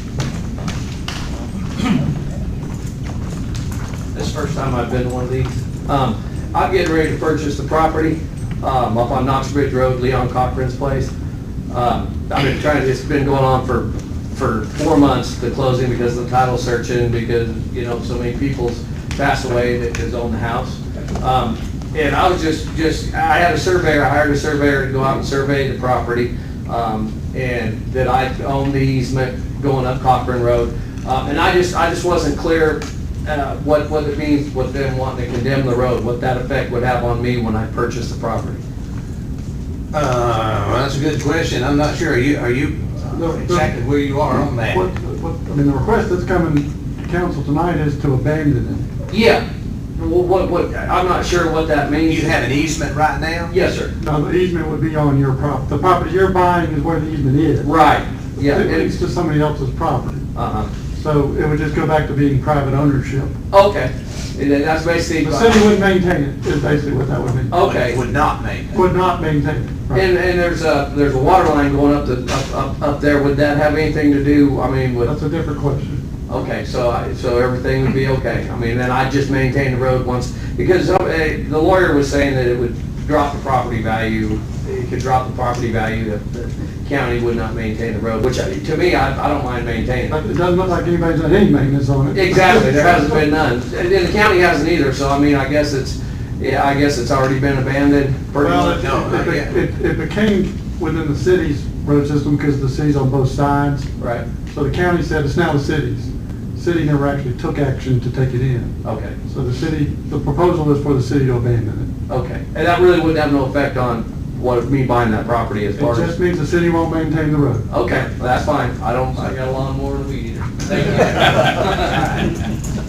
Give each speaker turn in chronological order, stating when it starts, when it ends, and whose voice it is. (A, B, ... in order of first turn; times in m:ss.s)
0:04.1-0:11.1 A
0:11.7-0:38.6 A
0:39.9-0:44.8 B
0:43.1-0:43.8 C
0:44.6-0:48.9 C
0:49.1-0:49.4 A
0:49.9-0:52.4 A
0:52.0-0:53.5 B
0:53.5-0:53.9 A
0:54.0-0:57.7 C
0:57.6-0:59.0 A
0:58.4-1:00.2 C
1:00.3-1:00.7 A
1:01.0-1:03.3 C
1:03.5-1:05.7 A
1:05.2-1:07.5 C
1:07.5-1:08.0 A
1:07.6-1:08.8 B
1:08.7-1:10.0 C
1:09.9-1:15.1 A
1:15.0-1:16.0 C
1:16.3-1:30.2 A
1:30.1-1:33.1 C
1:32.1-1:38.9 A
1:38.4-1:43.9 C
1:38.7-1:39.5 B
1:44.0-1:44.2 A
1:44.5-1:48.7 C
1:48.8-1:49.2 A
1:49.3-1:51.9 C
1:52.1-1:56.1 A
1:55.8-1:57.7 C
1:57.7-2:02.1 A